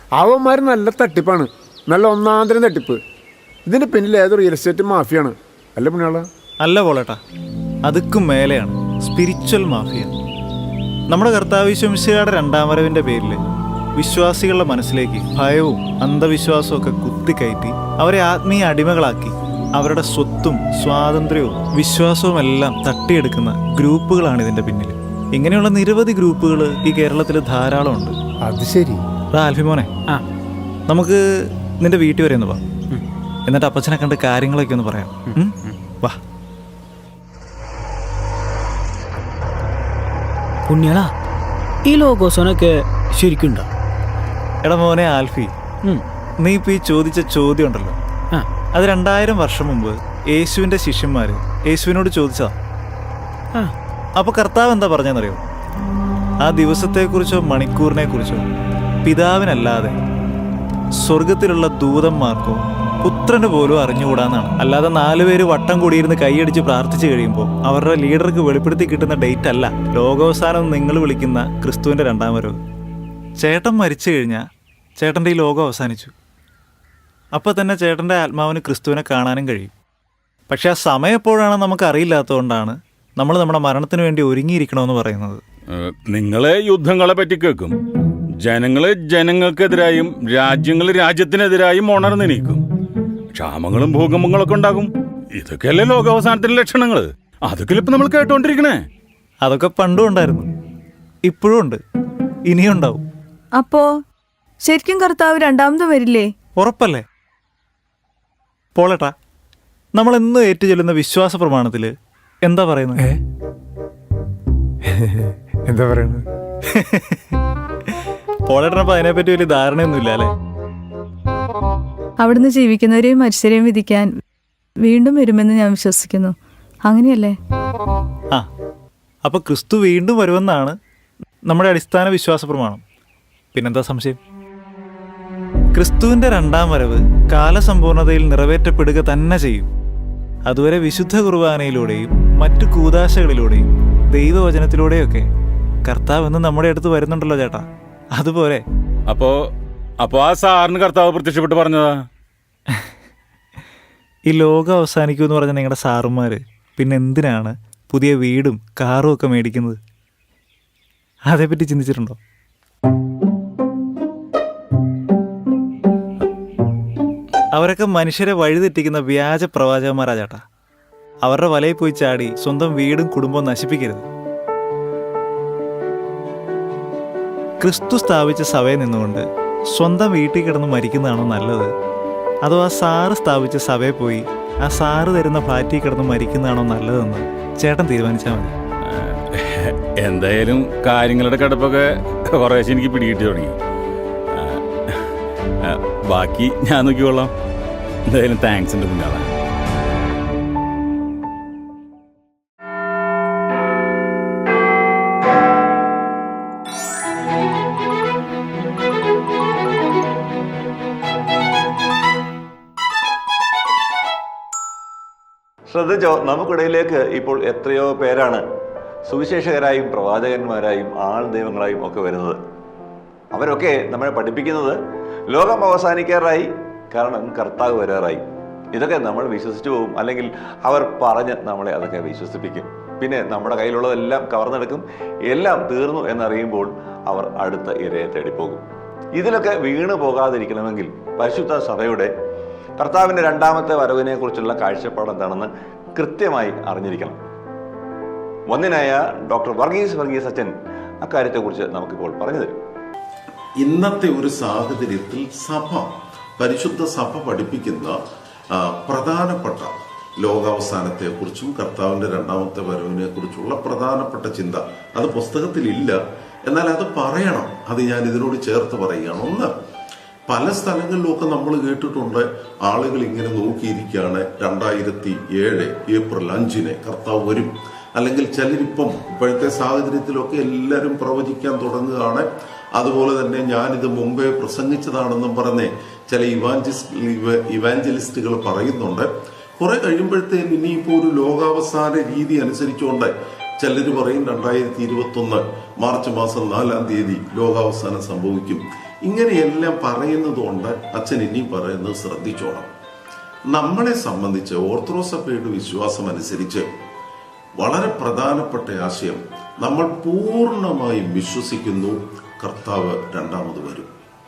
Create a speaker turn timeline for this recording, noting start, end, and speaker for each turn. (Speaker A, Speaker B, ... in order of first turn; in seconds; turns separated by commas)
Speaker A: 0.2-3.0, Speaker A: 3.7-6.3, Speaker B: 6.6-7.2, Speaker B: 7.8-10.2, Speaker B: 11.1-13.4, Speaker B: 14.0-28.2, Speaker A: 28.4-29.0, Speaker B: 29.3-29.9, Speaker B: 30.9-31.2, Speaker B: 31.8-32.6, Speaker B: 33.5-36.2, Speaker C: 40.7-41.1, Speaker C: 41.9-43.7, Speaker B: 44.6-45.5, Speaker B: 46.4-48.0, Speaker B: 48.7-52.6, Speaker B: 54.2-55.4, Speaker B: 56.4-58.4, Speaker B: 59.0-60.0, Speaker B: 61.0-72.6, Speaker B: 73.4-74.5, Speaker B: 75.0-76.1, Speaker B: 77.3-79.7, Speaker B: 80.5-85.4, Speaker D: 85.7-87.8, Speaker D: 88.4-92.6, Speaker D: 93.3-98.8, Speaker B: 99.4-100.5, Speaker B: 101.3-101.8, Speaker B: 102.5-103.0, Speaker E: 103.6-103.9, Speaker E: 104.6-106.3, Speaker B: 106.6-107.0, Speaker B: 108.8-109.1, Speaker B: 110.0-113.0, Speaker A: 114.8-116.2, Speaker B: 116.7-120.3, Speaker E: 122.2-124.1, Speaker E: 124.8-126.3, Speaker E: 126.9-127.4, Speaker B: 129.2-130.8, Speaker B: 131.5-132.8, Speaker B: 133.5-134.2, Speaker B: 135.7-139.7, Speaker B: 140.5-145.3, Speaker B: 145.8-148.6, Speaker D: 149.1-149.4, Speaker D: 150.0-152.0, Speaker B: 154.3-159.8, Speaker B: 161.3-162.2, Speaker B: 167.5-170.4, Speaker B: 171.2-174.1, Speaker B: 177.6-181.7, Speaker B: 182.4-188.5, Speaker D: 188.9-193.6, Speaker D: 194.3-195.1, Speaker D: 195.6-197.3, Speaker D: 198.1-199.3, Speaker F: 215.7-218.4, Speaker F: 219.1-222.4, Speaker F: 223.3-224.8, Speaker F: 225.3-238.6, Speaker F: 239.2-242.1, Speaker F: 242.8-247.2, Speaker F: 248.5-252.6, Speaker G: 253.6-258.0, Speaker G: 258.5-269.5, Speaker G: 270.3-302.7, Speaker G: 303.5-306.7, Speaker G: 307.6-313.9